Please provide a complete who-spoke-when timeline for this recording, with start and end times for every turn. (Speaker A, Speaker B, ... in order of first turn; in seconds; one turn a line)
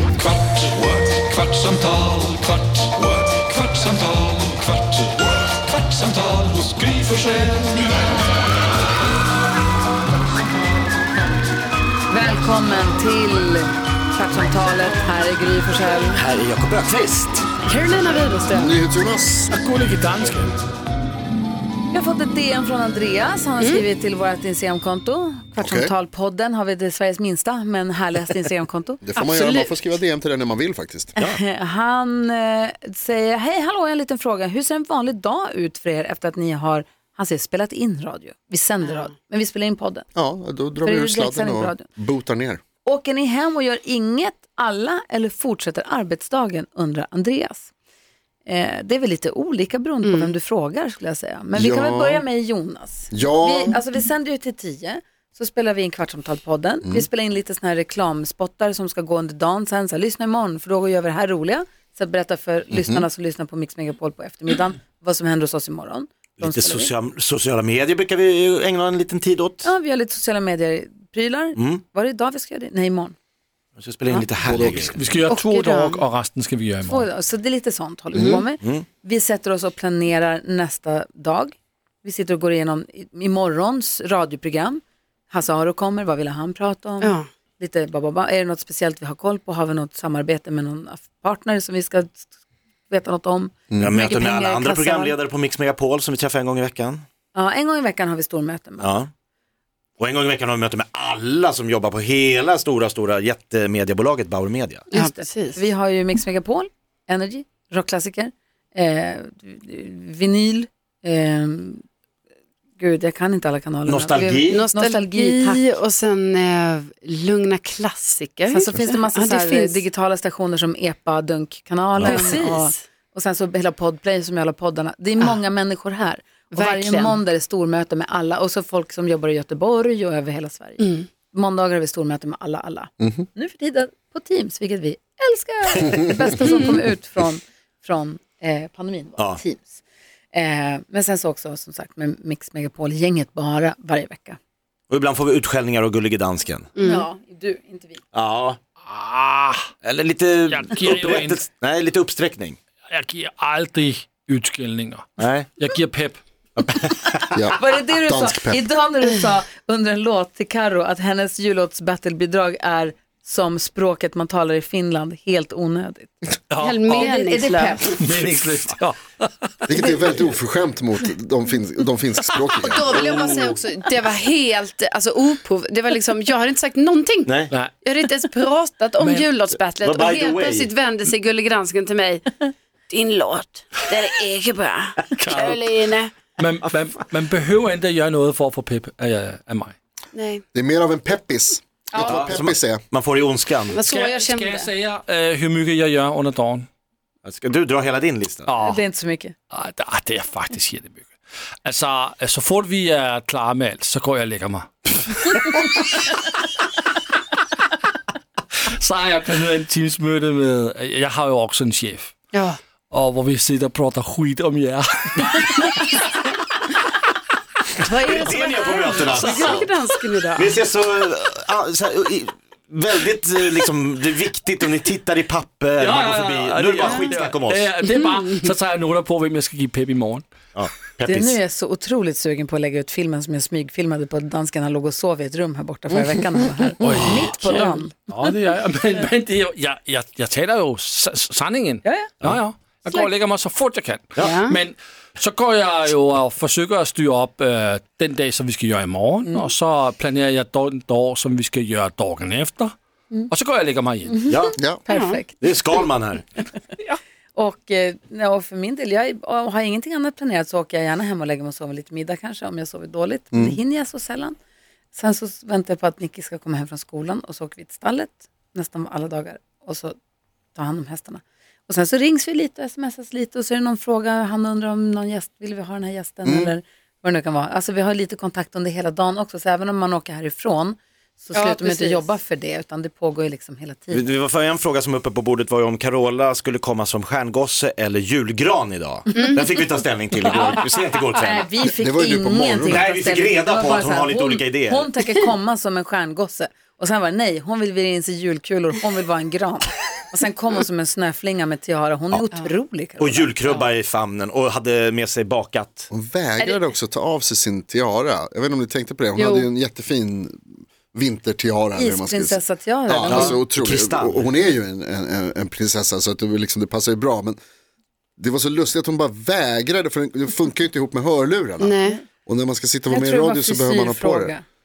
Speaker A: 0.2-2.5
Speaker B: 0.6-1.9
Speaker B: 2.5-3.2
Speaker A: 3.4-4.9
Speaker B: 3.8-4.7
Speaker A: 5.9-7.9
Speaker C: 12.1-16.2
Speaker D: 16.1-17.5
Speaker E: 17.6-18.8
Speaker F: 18.5-19.5
Speaker A: 19.5-20.5
Speaker C: 21.9-29.0
Speaker F: 25.6-25.9
Speaker F: 29.0-31.1
Speaker E: 29.2-29.7
Speaker C: 31.2-40.1
Speaker F: 40.1-42.6
Speaker C: 40.8-41.9
Speaker C: 42.9-47.7
Speaker C: 48.5-66.9
Speaker E: 50.0-50.3
Speaker F: 51.5-52.2
Speaker F: 53.1-53.8
Speaker F: 62.7-63.1
Speaker D: 66.4-69.7
Speaker C: 69.6-73.2
Speaker D: 71.6-71.8
Speaker D: 73.8-75.0
Speaker F: 74.5-74.9
Speaker A: 74.6-77.1
Speaker E: 75.3-76.0
Speaker C: 76.9-92.3
Speaker E: 87.0-87.3
Speaker C: 92.9-95.2
Speaker D: 93.8-97.0
Speaker C: 97.3-98.9
Speaker D: 98.8-99.1
Speaker D: 100.0-104.9
Speaker C: 104.9-111.8
Speaker E: 104.9-105.6
Speaker C: 112.8-115.7
Speaker D: 113.9-114.7
Speaker E: 114.5-119.8
Speaker C: 118.5-139.8
Speaker D: 122.0-122.3
Speaker E: 122.0-122.8
Speaker E: 126.5-127.2
Speaker E: 130.8-131.1
Speaker F: 133.0-133.3
Speaker C: 140.3-144.4
Speaker D: 144.9-146.7
Speaker E: 146.8-147.1
Speaker C: 146.8-148.0
Speaker D: 148.1-148.6
Speaker A: 148.9-149.6
Speaker D: 149.8-152.6
Speaker A: 150.5-151.5
Speaker A: 152.9-155.1
Speaker D: 155.2-155.5
Speaker A: 155.6-156.2
Speaker F: 157.3-158.6
Speaker C: 157.6-166.2
Speaker A: 166.5-167.1
Speaker E: 166.6-168.0
Speaker C: 166.9-167.9
Speaker A: 167.9-169.7
Speaker D: 168.3-168.7
Speaker F: 169.7-172.9
Speaker E: 172.6-182.3
Speaker D: 172.9-173.6
Speaker D: 177.3-177.5
Speaker A: 179.0-179.3
Speaker D: 179.5-180.7
Speaker E: 182.9-186.1
Speaker A: 185.2-185.7
Speaker A: 186.4-189.8
Speaker E: 190.1-190.4
Speaker F: 190.5-192.8
Speaker D: 192.0-193.8
Speaker E: 193.7-194.7
Speaker A: 193.9-196.7
Speaker D: 197.2-198.5
Speaker A: 198.5-198.8
Speaker C: 198.6-199.3
Speaker A: 199.5-201.1
Speaker A: 201.7-206.2
Speaker A: 208.7-212.1
Speaker E: 212.3-212.6
Speaker A: 212.9-216.1
Speaker E: 217.8-220.6
Speaker D: 217.9-219.7
Speaker A: 218.2-219.8
Speaker D: 220.4-227.7
Speaker A: 225.8-230.2
Speaker E: 227.9-228.3
Speaker D: 230.6-231.4
Speaker C: 231.1-237.9
Speaker A: 236.8-252.7
Speaker C: 241.8-242.1
Speaker E: 244.2-244.6
Speaker A: 253.3-254.2
Speaker C: 254.1-255.6
Speaker D: 254.3-254.6
Speaker E: 254.9-255.2
Speaker D: 255.4-256.2
Speaker C: 257.4-264.4
Speaker C: 264.9-269.9
Speaker C: 270.6-284.1
Speaker F: 276.2-276.5
Speaker E: 281.3-282.1
Speaker D: 283.9-291.5
Speaker E: 289.1-289.4
Speaker C: 291.1-303.7
Speaker F: 291.8-292.9
Speaker D: 292.6-294.9
Speaker D: 303.0-305.9
Speaker F: 305.9-317.4
Speaker E: 309.2-309.5
Speaker C: 311.8-313.4
Speaker D: 313.1-314.4
Speaker F: 318.2-324.3
Speaker E: 321.6-322.0
Speaker C: 322.9-324.4